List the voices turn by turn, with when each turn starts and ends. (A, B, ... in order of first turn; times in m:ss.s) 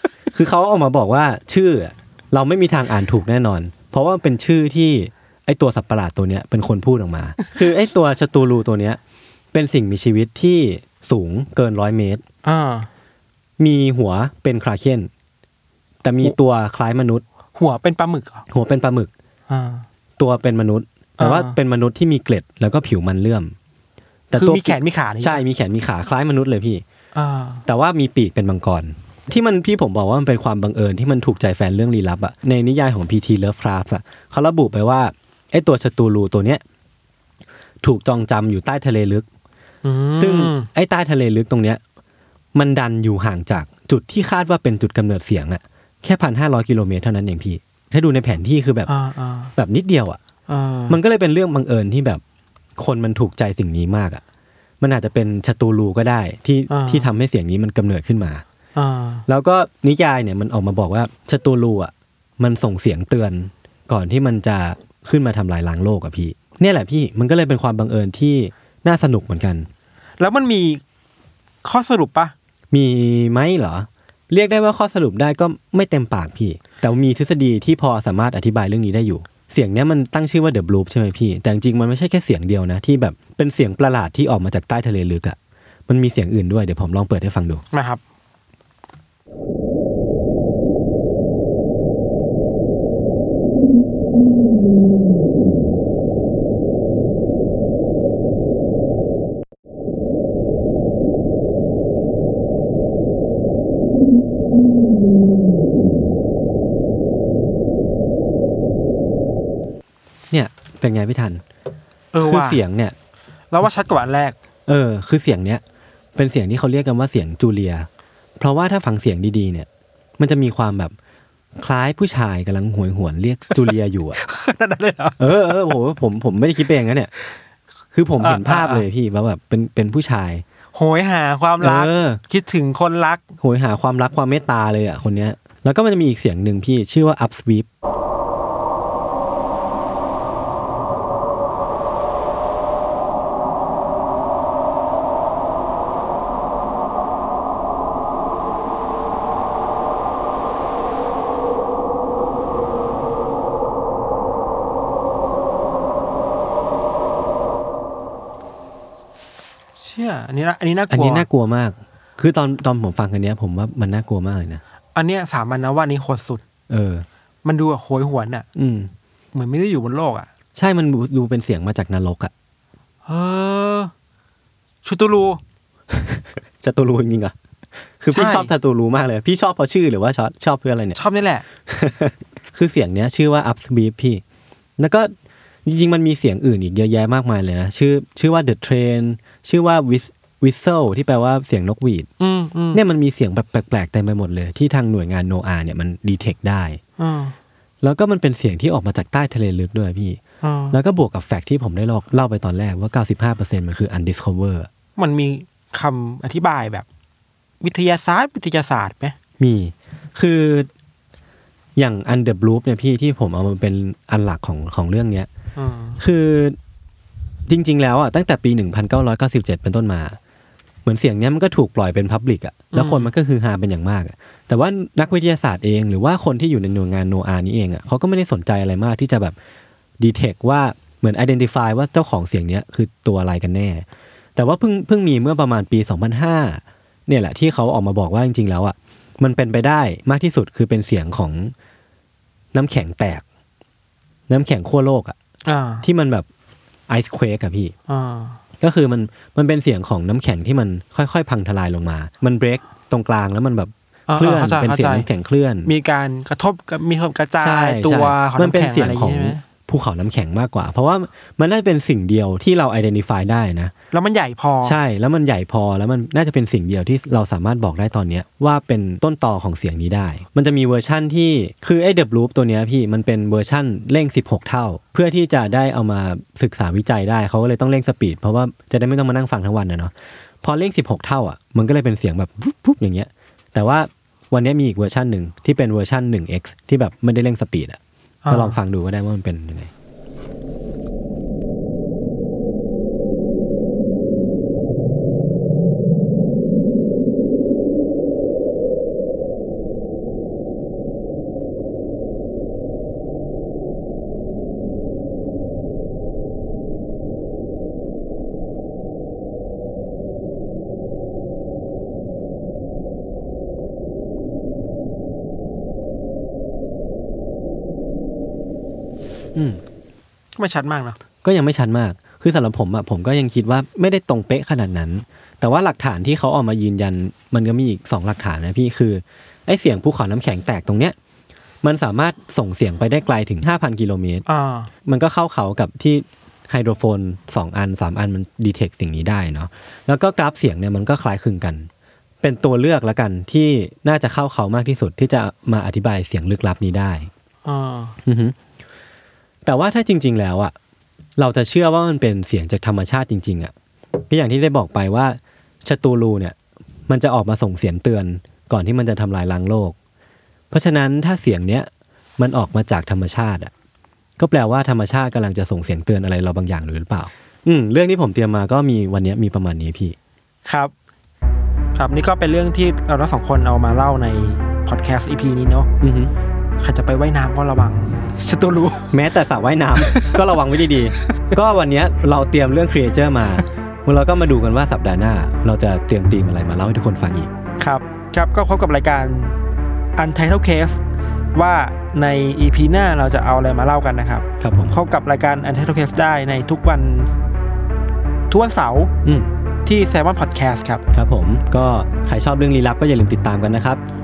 0:00.3-0:09.0 A
0:09.5-0:12.2 A
0:12.4-0:12.9 B
0:13.6-0:15.1 A
0:16.0-0:17.2 A
0:17.6-0:18.4 B
0:18.5-0:19.1 A
0:19.5-0:19.8 B
0:20.2-0:23.6 A
0:21.2-0:21.6 B
0:24.3-0:26.8 A
0:24.3-0:25.4 B
0:27.2-0:27.6 B
0:27.7-0:36.6 A
0:37.8-0:39.3 A
0:39.8-0:40.7 B
0:40.2-0:41.8 A
0:42.6-0:48.9 A
0:48.9-0:49.5 B
0:49.6-0:50.2 A
0:50.5-0:51.0 B
0:50.9-0:52.2 A
0:52.8-0:54.2 A
0:54.8-0:58.4 A
0:56.7-0:57.1 B
0:58.8-0:59.2 B
0:59.3-1:09.7 A
1:10.2-1:10.8 B
1:11.6-1:12.3 B
1:12.7-1:25.4 A
1:25.9-1:27.6 A
1:27.7-1:28.0 B
1:50.3-1:51.4 A
1:52.1-1:52.6 B
1:52.2-1:53.0 A
1:53.5-1:54.4 B
1:54.7-1:55.6 A
1:56.2-1:57.9 A
1:58.4-1:59.7 A
2:00.2-2:00.9 A
2:01.6-2:04.2 A
2:03.6-2:05.7 B
2:05.2-2:07.1 A
2:07.9-2:10.4 A
2:08.2-2:08.8 B
2:10.8-2:13.2 B
2:11.6-2:12.2 A
2:13.4-2:17.7 A
2:39.8-2:41.3 B
2:40.9-2:44.6 A
2:45.0-2:46.4 B
2:46.7-2:47.1 A
2:47.4-2:48.5 B
2:48.6-2:48.9 A
2:49.3-2:50.3 B
2:50.6-2:52.3 A
2:53.1-2:53.9 B
2:54.8-2:55.4 B
2:55.9-2:57.3 A
2:58.0-3:01.0 A
2:58.1-2:58.5 B
3:01.0-3:01.4 B
3:01.7-3:04.2 A
3:04.8-3:05.1 A
3:05.6-3:12.1 A
3:12.2-3:12.8 B
3:12.7-3:16.8 A
3:17.0-3:17.4 B
3:17.8-3:20.2 A
3:20.4-3:20.8 B
3:20.7-3:24.7 A
3:25.0-3:26.9 B
3:27.6-3:29.2 B
3:29.4-3:30.7 A
3:31.8-3:35.3 A
3:35.6-3:36.0 B
3:36.0-3:36.6 A
3:37.5-3:40.2 A
3:40.8-3:49.4 A
3:42.7-3:43.1 B
3:50.0-3:53.8 A
3:54.4-4:01.5 A
4:02.5-4:03.2 A
4:04.3-4:05.2 A
4:05.5-4:05.9 B
4:05.8-4:06.3 A
4:06.9-4:07.7 A
4:07.9-4:08.4 B
4:08.6-4:15.7 A
4:14.1-4:15.1 B
4:15.6-4:19.4 B
4:17.4-4:23.7 A
4:23.9-4:24.8 B
4:24.6-4:49.7 A
4:48.2-4:48.6 B
5:19.4-5:19.6 A
5:20.4-5:21.0 B
5:21.2-5:31.0 A
5:31.6-5:34.2 A
5:34.3-5:34.7 B
5:34.8-5:41.7 A
5:42.2-5:47.1 A
5:47.4-5:48.0 B
5:48.0-5:48.4 A
5:49.4-5:50.5 A
5:51.2-5:53.5 A
5:54.1-5:56.4 A
5:56.9-5:59.8 A
6:00.5-6:03.5 A
6:04.2-6:10.0 A
6:10.5-6:10.7 B
6:11.8-6:15.7 B
6:15.8-6:16.1 A
6:16.6-6:18.9 B
6:18.9-6:27.3 A
6:19.8-6:20.2 B
6:27.6-6:29.4 B
6:30.0-6:30.8 B
6:31.4-6:37.1 B
6:34.4-6:34.8 A
6:38.3-6:38.9 B
6:39.0-6:39.3 A
6:39.6-6:40.8 B
6:40.9-6:43.8 A